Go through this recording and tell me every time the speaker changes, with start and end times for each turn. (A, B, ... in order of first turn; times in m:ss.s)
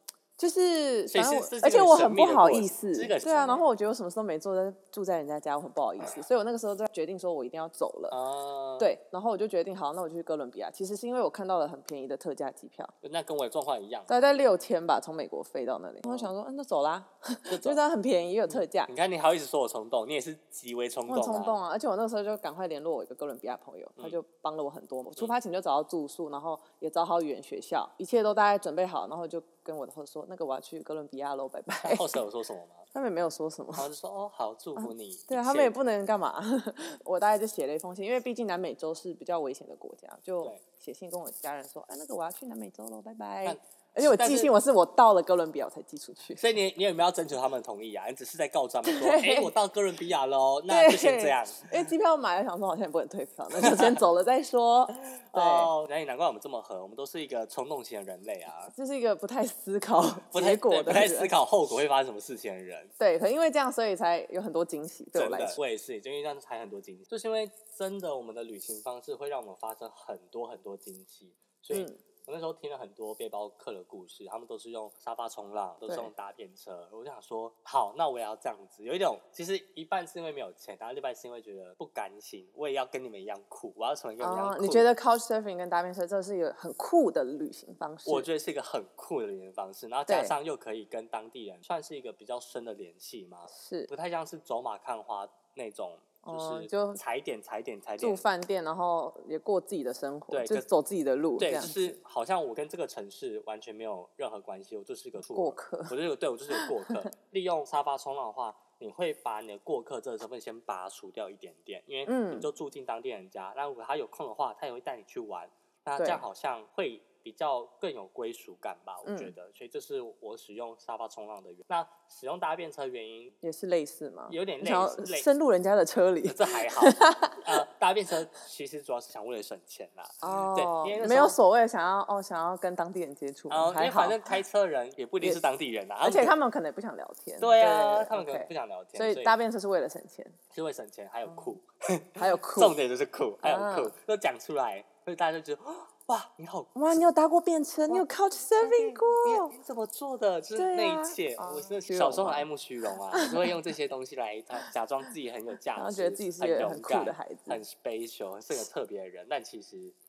0:00.4-0:08.2 A
0:01.1-0:03.6 B
0:08.1-0:08.9 B
0:08.8-0:12.9 A
0:13.0-0:14.4 B
0:14.1-0:18.9 A
0:17.5-0:17.8 B
0:18.5-0:21.6 B
0:21.1-0:32.2 A
0:31.8-0:32.9 B
0:32.9-0:33.9 A
0:33.8-0:35.7 B
0:34.8-0:46.4 A
0:43.4-0:44.5 B
0:46.4-0:51.8 B
0:48.8-0:49.5 A
0:50.7-0:55.7 A
0:53.6-0:54.0 B
0:55.0-0:58.7 B
0:58.7-1:01.3 A
1:00.3-1:02.9 B
1:03.0-1:05.6 A
1:05.2-1:25.0 B
1:11.7-1:12.0 A
1:24.2-1:28.3 A
1:28.1-1:38.2 B
1:30.1-1:30.3 A
1:33.5-1:33.9 A
1:36.2-1:37.0 A
1:38.0-1:41.9 A
1:40.3-1:40.7 B
1:41.4-2:03.4 B
1:45.2-1:45.9 A
1:46.5-1:47.1 A
1:52.1-1:52.5 A
1:56.0-1:56.2 A
1:59.1-1:59.3 A
2:03.4-2:07.6 A
2:04.3-2:05.3 B
2:06.2-2:11.4 B
2:10.2-2:14.2 A
2:13.5-2:16.4 B
2:16.0-2:20.4 A
2:17.4-2:19.4 B
2:20.5-2:27.0 B
2:21.3-2:21.6 A
2:22.2-2:22.8 A
2:23.4-2:23.9 A
2:26.8-2:29.5 A
2:28.6-2:40.0 B
2:30.6-2:32.5 A
2:33.1-2:33.6 A
2:35.8-2:37.6 A